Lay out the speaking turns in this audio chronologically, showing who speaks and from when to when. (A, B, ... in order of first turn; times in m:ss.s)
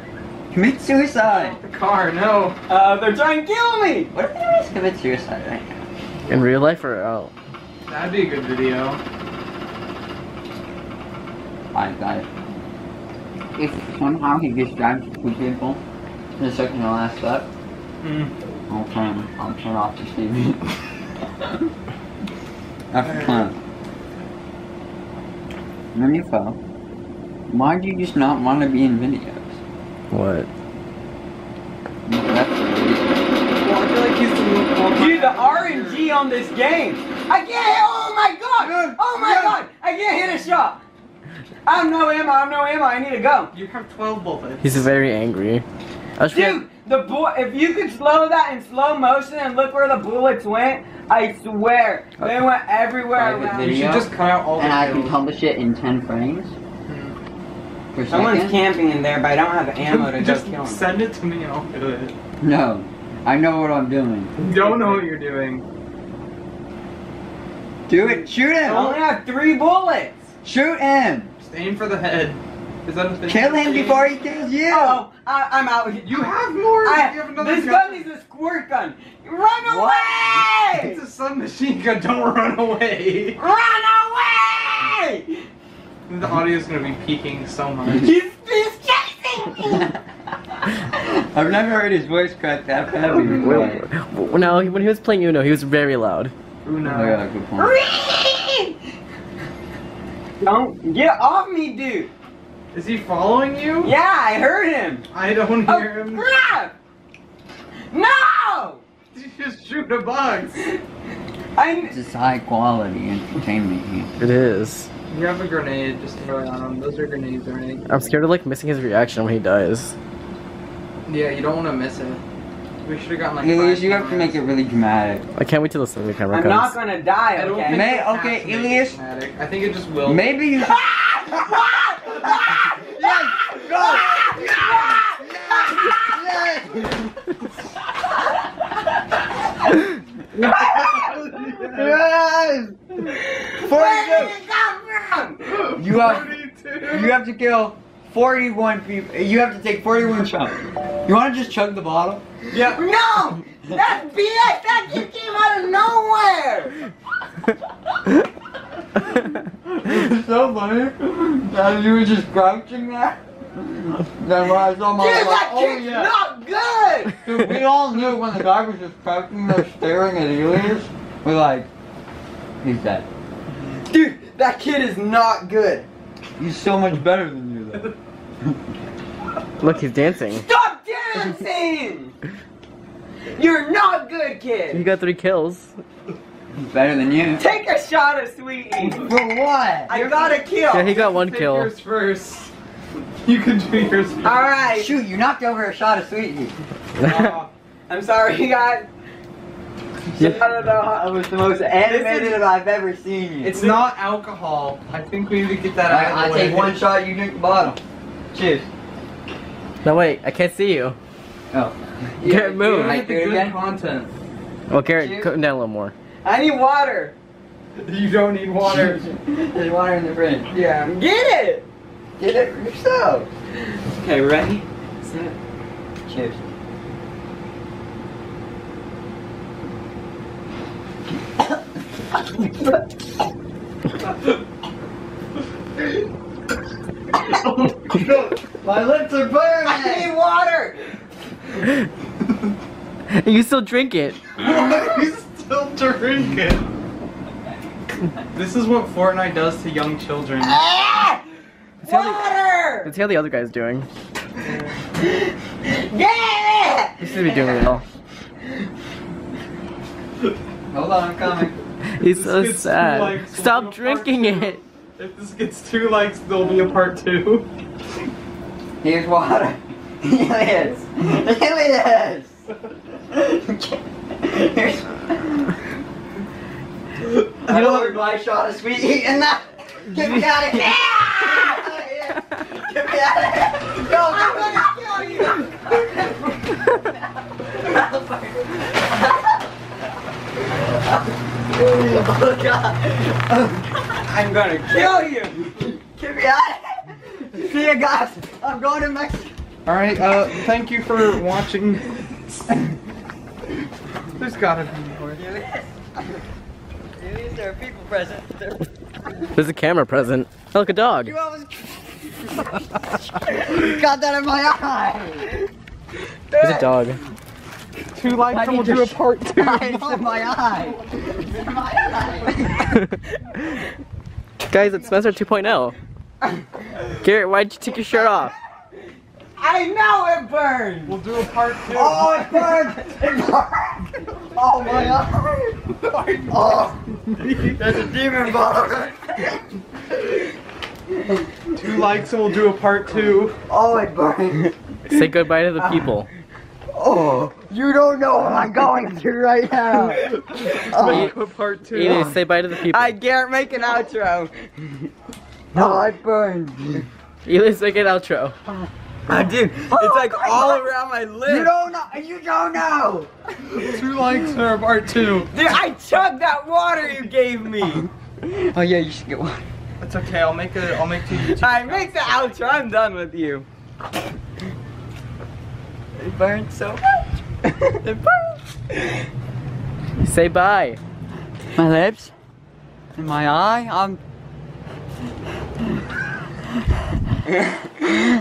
0:00.5-0:01.6 A
0:01.2-0:02.6 B
0:02.7-0:04.1 C
0:04.1-0:05.8 A
0:06.3-0:07.3 D
0:07.9-0:09.0 B
0:11.7-0:12.3 A
0:13.6-0:15.8 A
0:16.4-0:17.5 A
0:18.0-0:18.3 B
0:18.7-0:20.7 A
0:22.9-0:23.6 A
0:23.0-0:23.5 B
0:25.9-0:26.6 A
0:27.5-0:29.6 A
0:30.1-0:30.5 D
0:32.0-0:33.2 A
0:33.6-0:36.1 B
0:34.9-0:40.8 C
0:38.6-0:39.5 A
0:41.6-0:43.5 C
0:43.5-0:44.9 B
0:44.6-0:45.6 D
0:46.2-0:46.6 D
0:46.3-0:53.8 C
0:53.2-0:56.5 A
0:53.2-0:55.2 B
0:56.8-0:57.2 B
0:57.9-0:58.6 A
0:58.1-1:00.8 C
0:59.8-1:02.1 B
1:02.4-1:04.3 A
1:04.4-1:05.6 B
1:07.9-1:09.0 A
1:08.0-1:10.2 C
1:08.6-1:09.0 B
1:10.4-1:11.3 A
1:11.4-1:14.1 B
1:13.3-1:15.0 A
1:14.7-1:21.0 C
1:16.0-1:18.1 B
1:19.6-1:20.4 A
1:20.6-1:23.4 B
1:23.4-1:25.4 C
1:26.1-1:28.1 B
1:27.9-1:29.9 C
1:29.7-1:30.0 A
1:31.0-1:33.8 A
1:33.3-1:36.3 D
1:36.6-1:37.2 B
1:36.8-1:37.8 A
1:37.6-1:38.8 C
1:40.4-1:42.1 C
1:42.7-1:43.9 B
1:43.8-1:45.1 C
1:45.1-1:46.3 B
1:45.6-1:46.7 C
1:47.9-1:48.8 C
1:49.1-1:50.7 B
1:51.6-1:51.9 C
1:51.8-1:54.1 A
1:54.2-1:54.9 D
1:55.1-1:57.9 B
1:57.9-1:59.9 D
2:01.0-2:02.2 B
2:02.8-2:04.4 B
2:03.4-2:05.2 A
2:05.4-2:06.8 D
2:06.3-2:07.9 C
2:07.3-2:10.3 B
2:07.7-2:09.0 A
2:10.0-2:10.8 A
2:10.6-2:16.1 C
2:12.8-2:17.1 A
2:20.5-2:22.0 B
2:21.5-2:24.4 A
2:23.0-2:25.7 C
2:25.5-2:27.2 B
2:25.7-2:32.2 A
2:32.5-2:36.7 C
2:39.6-2:46.1 A
2:45.0-2:47.2 C
2:47.2-2:51.7 A
2:52.6-2:53.0 A
2:53.5-2:53.8 B
2:53.9-2:55.9 C
2:56.4-2:57.9 A
2:59.6-3:00.4 D
3:00.3-3:02.1 C
3:03.3-3:04.8 C
3:04.7-3:05.7 D
3:06.5-3:07.4 A
3:07.4-3:09.1 C
3:09.0-3:09.9 A
3:09.9-3:10.9 C
3:09.9-3:12.5 B
3:10.7-3:11.7 D
3:13.2-3:14.4 B
3:14.2-3:15.0 C
3:14.7-3:16.6 A
3:17.0-3:17.5 B
3:17.9-3:18.9 C
3:20.1-3:22.4 C
3:20.1-3:20.5 A
3:21.6-3:23.6 A
3:23.4-3:26.8 B
3:25.9-3:27.8 A
3:28.3-3:28.6 A
3:29.8-3:31.0 D
3:31.5-3:33.6 A
3:32.2-3:33.1 D
3:32.5-3:34.1 B
3:34.7-3:35.9 D
3:34.9-3:35.3 A
3:36.2-3:37.1 C
3:37.8-3:39.0 B
3:38.6-3:40.5 A
3:40.5-3:41.6 C
3:42.2-3:43.3 A
3:43.6-3:45.3 C
3:46.0-3:46.4 A
3:57.9-4:00.1 A
3:59.6-4:00.9 C
4:03.1-4:04.3 D
4:04.3-4:06.6 B
4:08.3-4:10.6 B
4:10.4-4:11.2 C
4:11.8-4:12.9 C
4:11.8-4:12.2 D
4:12.8-4:13.9 D
4:14.4-4:14.8 B
4:15.0-4:17.7 C
4:17.0-4:17.8 D
4:20.7-4:21.5 A
4:21.9-4:24.6 D
4:22.0-4:27.5 B
4:28.8-4:32.4 A
4:33.1-4:35.6 A
4:37.1-4:44.7 A
4:37.5-4:37.9 B
4:43.9-4:45.4 C
4:45.3-4:49.4 A
4:50.4-4:54.0 A
4:54.1-4:55.4 C
4:55.4-4:59.3 A
4:59.6-5:02.0 B
5:04.1-5:05.2 B
5:05.2-5:06.2 A
5:07.0-5:08.6 A
5:09.3-5:11.1 D
5:11.0-5:12.5 A
5:13.2-5:15.4 A
5:16.3-5:16.7 C
5:16.4-5:17.0 D
5:17.9-5:20.2 B
5:18.2-5:22.6 A
5:22.6-5:23.0 D
5:24.5-5:25.8 D
5:26.9-5:28.3 D
5:29.4-5:31.0 C
5:30.8-5:32.7 B
5:31.7-5:35.7 A
5:35.8-5:37.6 B
5:36.3-5:36.8 A
5:37.5-5:39.4 A
5:41.5-5:43.4 B
5:43.5-5:44.5 A
5:44.8-5:46.1 D
5:45.6-5:45.9 C
5:46.7-5:51.1 A
5:50.5-5:52.1 B
5:50.7-5:51.1 D
5:51.7-5:52.9 D
5:51.8-5:52.2 A
5:52.6-5:54.9 C
5:55.5-5:56.9 A
5:57.2-5:58.3 D
5:59.1-6:01.5 C
5:59.7-6:00.6 A
6:01.2-6:03.1 A
6:03.5-6:05.3 B
6:05.3-6:07.9 C
6:08.2-6:09.4 A
6:09.8-6:12.2 B
6:11.4-6:13.5 C
6:16.0-6:17.0 A
6:17.8-6:18.3 A
6:20.0-6:20.8 D
6:21.5-6:22.1 A
6:23.0-6:24.0 A
6:27.4-6:27.9 C